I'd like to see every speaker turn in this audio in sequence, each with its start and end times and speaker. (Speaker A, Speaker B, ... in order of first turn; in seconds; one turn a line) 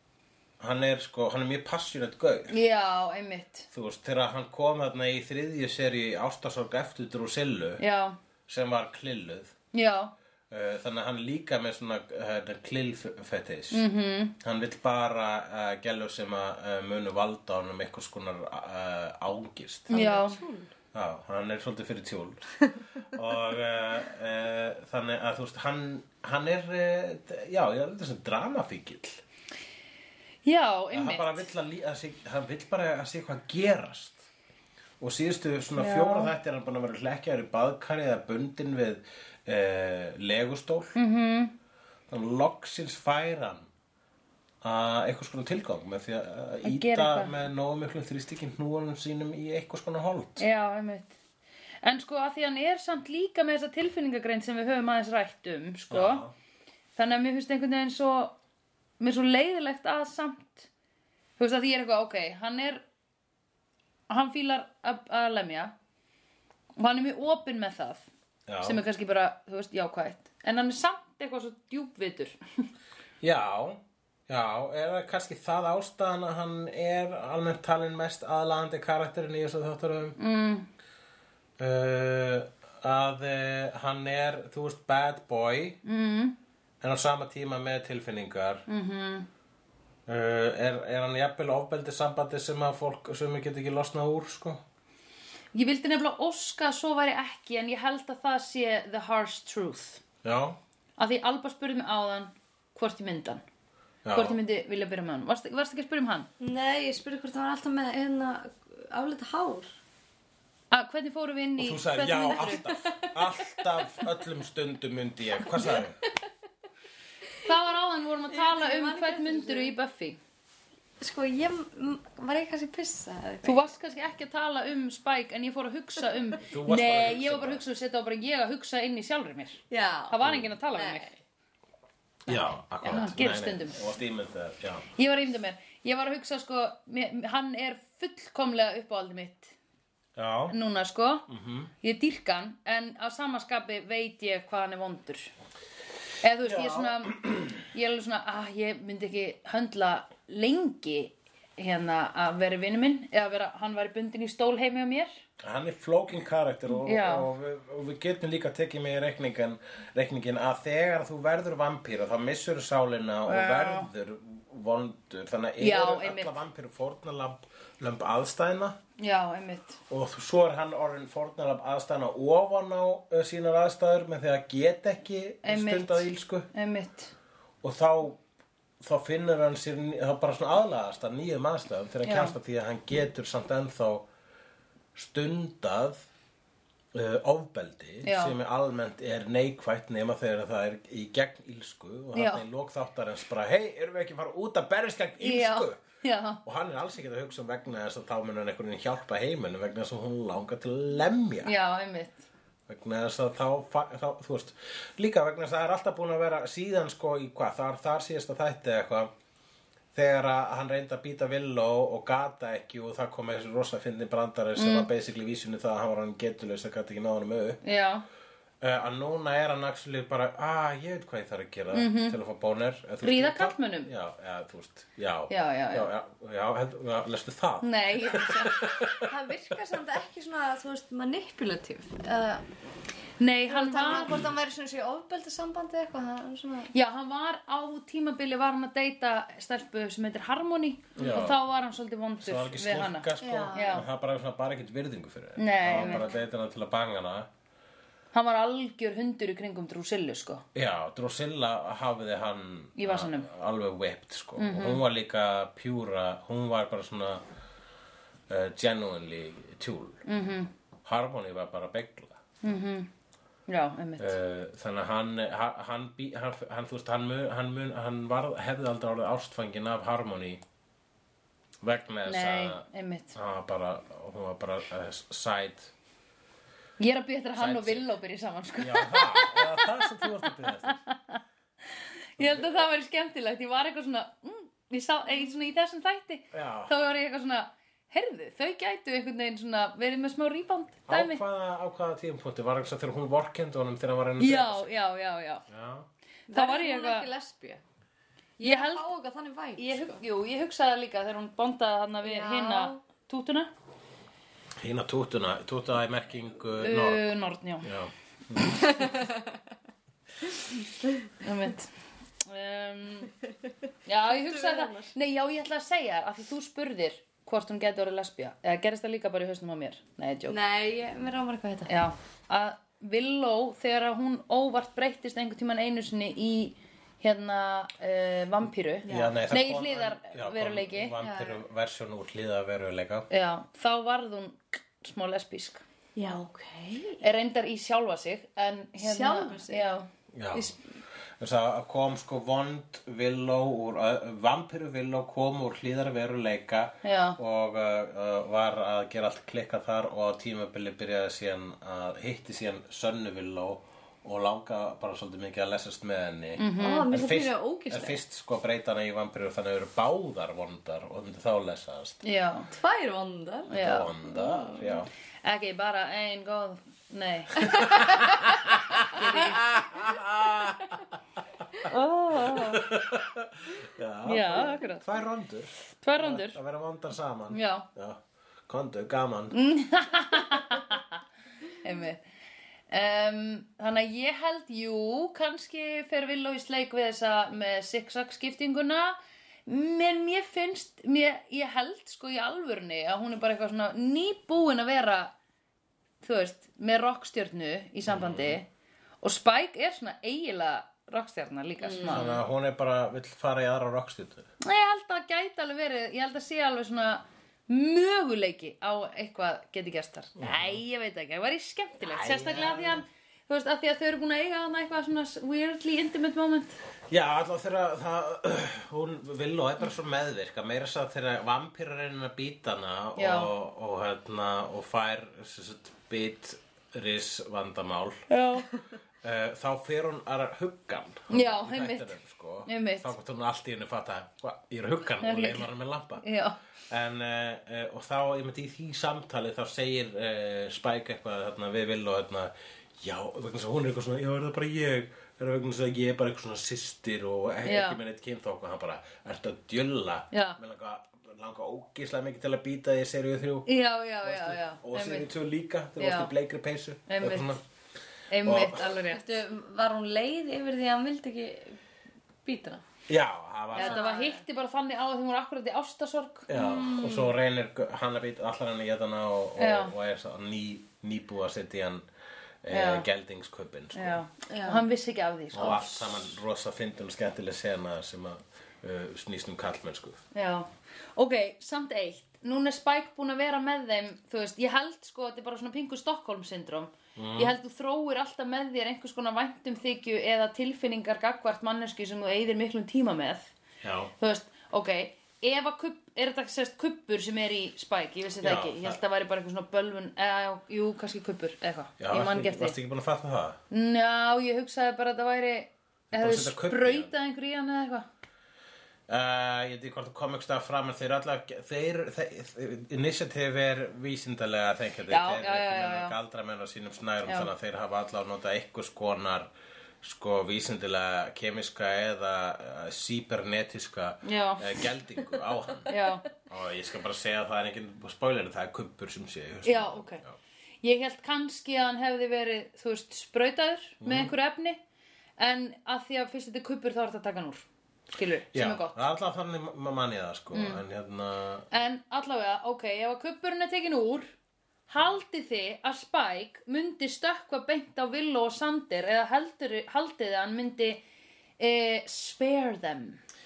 Speaker A: 0.6-2.6
Speaker B: 2.5-3.7
Speaker A: 3.7-7.8
Speaker B: 7.8-8.2
Speaker A: 8.5-9.5
Speaker B: 9.7-10.1
Speaker A: 10.5-13.8
Speaker B: 13.7-14.3
Speaker A: 14.4-20.0
Speaker B: 19.9-20.4
Speaker C: 19.9-20.7
Speaker A: 20.9-29.2
Speaker B: 30.4-31.5
Speaker A: 30.9-34.3
Speaker A: 35.0-41.0
Speaker B: 35.8-36.3
Speaker B: 41.0-41.5
Speaker A: 42.1-43.7
Speaker A: 44.6-50.5
Speaker B: 46.6-47.4
Speaker B: 50.4-51.2
Speaker B: 51.8-56.2
Speaker A: 55.9-56.3
Speaker B: 57.0-58.4
Speaker B: 59.0-60.7
Speaker B: 61.4-62.8
Speaker B: 64.1-65.7
Speaker B: 66.8-68.1
Speaker A: 68.5-68.8
Speaker B: 68.6-72.4
Speaker A: 73.2-80.2
Speaker B: 80.2-80.7
Speaker A: 81.6-85.8
Speaker B: 85.8-86.4
Speaker A: 86.8-88.7
Speaker B: 88.7-89.3
Speaker A: 90.1-94.6
Speaker B: 95.5-100.0
Speaker A: 100.2-100.6
Speaker B: 101.0-103.4
Speaker A: 104.0-104.4
Speaker B: 104.1-106.3
Speaker C: 106.4-109.7
Speaker B: 110.7-112.7
Speaker A: 111.6-116.0
Speaker C: 112.8-113.4
Speaker B: 117.4-120.2
Speaker C: 118.3-119.7
Speaker C: 121.0-123.7
Speaker B: 123.4-131.1
Speaker A: 126.4-127.6
Speaker C: 129.7-130.2
Speaker A: 130.2-130.5
Speaker C: 130.7-131.2
Speaker A: 132.3-134.9
Speaker B: 132.3-133.8
Speaker B: 135.0-139.6
Speaker A: 140.2-140.6
Speaker B: 140.5-141.3
Speaker A: 141.3-141.7
Speaker B: 141.8-145.3
Speaker B: 146.2-155.1
Speaker A: 146.4-147.6
Speaker A: 155.4-168.8
Speaker B: 156.8-157.3
Speaker B: 163.3-163.9
Speaker B: 165.6-166.4
Speaker B: 169.0-169.8
Speaker A: 169.9-176.5
Speaker B: 175.4-177.1
Speaker A: 177.6-178.2
Speaker A: 178.8-184.1
Speaker B: 182.1-182.4
Speaker A: 184.9-186.1
Speaker A: 186.9-195.8
Speaker B: 188.0-188.3
Speaker B: 192.1-192.4
Speaker B: 195.2-196.4
Speaker A: 196.4-201.5
Speaker B: 201.4-202.3
Speaker A: 202.7-209.1
Speaker A: 209.9-217.6
Speaker B: 214.6-214.9
Speaker B: 217.6-218.1
Speaker A: 218.6-229.1
Speaker B: 221.7-222.2
Speaker B: 223.0-223.9
Speaker B: 225.3-225.9
Speaker B: 227.6-228.7
Speaker C: 228.9-232.5
Speaker B: 233.2-234.2
Speaker C: 233.5-236.7
Speaker B: 236.7-243.8
Speaker A: 241.0-241.4
Speaker A: 242.2-247.3
Speaker C: 243.2-243.8
Speaker B: 245.4-246.1
Speaker C: 245.7-246.2
Speaker B: 248.1-250.4
Speaker A: 250.5-257.2
Speaker B: 252.8-253.3
Speaker B: 254.4-254.8
Speaker A: 258.3-260.0
Speaker B: 260.1-260.5
Speaker A: 260.9-262.2
Speaker B: 262.4-262.9
Speaker B: 263.5-264.2
Speaker A: 264.0-270.4
Speaker A: 271.6-275.7
Speaker B: 272.1-273.1
Speaker B: 276.8-280.1
Speaker A: 277.4-277.9
Speaker A: 278.6-280.8
Speaker B: 280.6-281.2
Speaker B: 281.8-291.2
Speaker A: 282.2-282.6
Speaker A: 286.3-286.7
Speaker A: 290.9-294.7
Speaker B: 294.2-295.5
Speaker A: 295.5-295.9
Speaker C: 296.3-297.6
Speaker B: 296.3-297.1
Speaker C: 298.4-300.0
Speaker B: 298.4-298.9
Speaker B: 299.6-303.5
Speaker C: 302.0-302.8
Speaker A: 304.6-307.1
Speaker B: 306.6-307.7
Speaker A: 307.6-308.9
Speaker C: 308.6-309.3
Speaker B: 311.2-313.1
Speaker B: 313.9-320.4
Speaker C: 314.0-314.9
Speaker C: 320.3-321.7
Speaker B: 321.7-330.9
Speaker C: 328.9-329.2
Speaker A: 328.9-333.1
Speaker C: 331.0-331.4
Speaker B: 333.1-335.6
Speaker C: 336.0-337.0
Speaker B: 337.0-339.9
Speaker C: 338.8-339.7
Speaker A: 340.1-340.6
Speaker C: 340.3-340.6
Speaker A: 341.2-362.0
Speaker B: 346.8-347.2
Speaker B: 356.4-356.9
Speaker C: 356.6-358.0
Speaker B: 362.0-362.5
Speaker C: 362.5-364.8
Speaker A: 363.5-364.9
Speaker B: 363.5-363.9
Speaker B: 365.2-369.6
Speaker A: 367.6-371.4
Speaker C: 371.7-372.6
Speaker B: 371.7-372.6
Speaker A: 372.1-379.4
Speaker B: 374.0-374.9
Speaker B: 375.8-376.4
Speaker B: 377.3-377.7
Speaker B: 379.3-381.0
Speaker B: 381.6-382.0
Speaker B: 382.7-395.1
Speaker B: 396.0-398.5
Speaker A: 397.9-398.4
Speaker B: 399.0-402.2
Speaker C: 401.6-402.1
Speaker A: 401.9-404.3
Speaker B: 404.4-416.6
Speaker A: 410.2-410.6
Speaker A: 411.8-412.9
Speaker A: 416.9-428.0
Speaker B: 423.0-423.3
Speaker B: 428.1-428.5
Speaker A: 429.0-436.1
Speaker B: 431.1-432.9
Speaker B: 435.0-436.4
Speaker A: 436.7-453.5
Speaker B: 447.4-447.8
Speaker B: 450.1-450.4
Speaker B: 453.5-455.1
Speaker A: 454.0-457.4
Speaker B: 455.8-456.1
Speaker B: 456.9-457.4
Speaker B: 458.1-459.1
Speaker A: 458.2-458.7
Speaker C: 458.9-461.6
Speaker C: 462.2-462.6
Speaker A: 462.9-463.8
Speaker B: 463.5-466.3
Speaker C: 463.6-464.2
Speaker A: 466.3-471.9
Speaker C: 466.3-467.1
Speaker B: 469.4-469.7
Speaker A: 472.4-474.0
Speaker B: 472.5-472.9
Speaker B: 473.7-476.2
Speaker C: 474.3-474.6
Speaker A: 475.3-480.0
Speaker B: 480.1-493.3
Speaker A: 487.0-487.4
Speaker A: 493.6-493.9
Speaker B: 494.0-502.6
Speaker A: 498.2-498.8
Speaker A: 501.8-503.4
Speaker B: 503.5-507.9
Speaker A: 505.9-506.9
Speaker A: 508.9-519.3
Speaker B: 514.9-515.9
Speaker B: 517.1-517.3
Speaker A: 519.8-525.7
Speaker B: 524.0-524.6
Speaker B: 525.7-526.1
Speaker A: 526.3-530.1
Speaker B: 529.5-530.0
Speaker B: 530.6-534.6
Speaker A: 533.8-534.1
Speaker B: 535.2-538.8
Speaker A: 538.3-541.5
Speaker B: 540.3-540.6
Speaker B: 541.5-544.1
Speaker B: 544.7-550.8
Speaker B: 551.4-553.0